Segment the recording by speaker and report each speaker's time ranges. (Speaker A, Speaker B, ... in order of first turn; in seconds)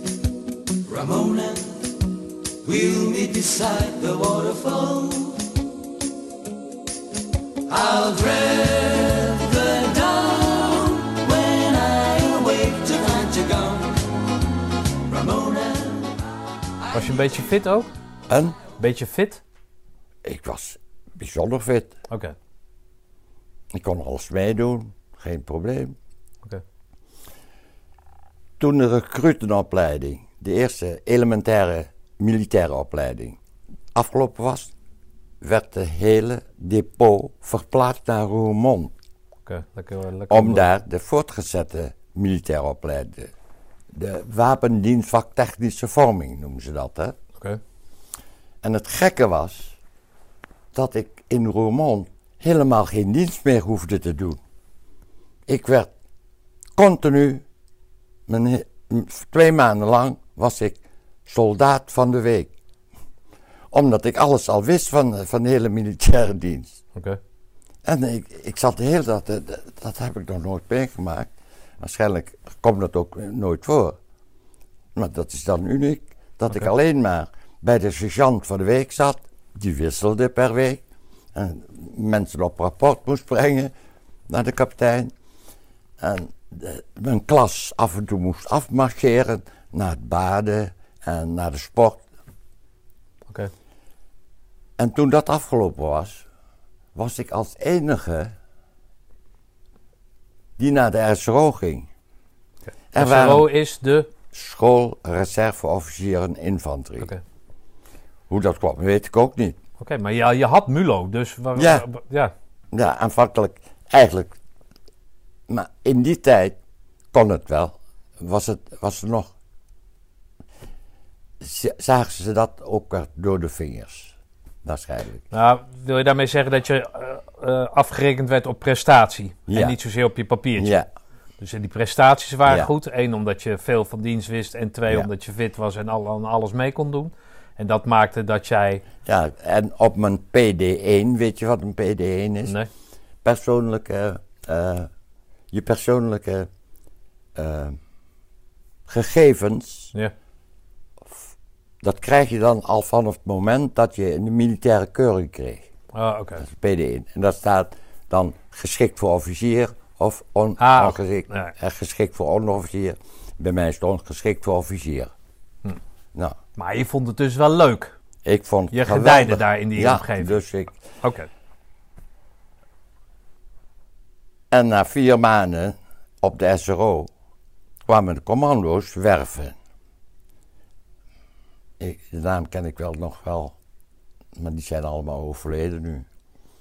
Speaker A: 0.9-1.8, 2.6-5.4, 7.8-14.0, 15.1-16.1
Speaker B: 16.9-17.9, 18.8-19.4, 22.1-22.3, 39.5-40.6, 103.0-104.1, 109.8-112.3, 125.3-130.8, 131.4-138.8, 155.9-156.4, 160.6-161.5, 166.6-167.9, 168.7-170.4, 171.0-171.3
Speaker C: 18.3-18.6, 20.2-21.9, 23.7-25.9, 28.6-33.4, 33.9-34.7, 35.4-38.9, 40.3-43.3, 43.9-47.1, 48.6-49.8, 50.7-54.4, 55.5-55.9, 56.8-57.4, 58.3-62.5, 63.7-66.8, 67.8-74.0, 74.9-80.8, 81.3-83.7, 84.3-85.1, 86.0-92.0, 94.8-96.2, 96.9-98.3, 100.6-101.9, 102.9-103.5, 104.3-107.1, 108.3-109.6, 111.5-111.8, 112.7-114.3, 115.5-116.6, 117.1-119.3, 121.4-125.2, 129.5-129.7, 130.6-130.9, 132.4-132.7, 139.0-142.5, 143.2-144.9, 145.5-146.5, 147.3-147.8, 148.9-149.9, 151.0-151.3, 151.8-155.7, 156.4-165.1, 168.2-170.8, 174.5-177.1, 177.8-179.5, 181.8-183.5, 184.3-186.1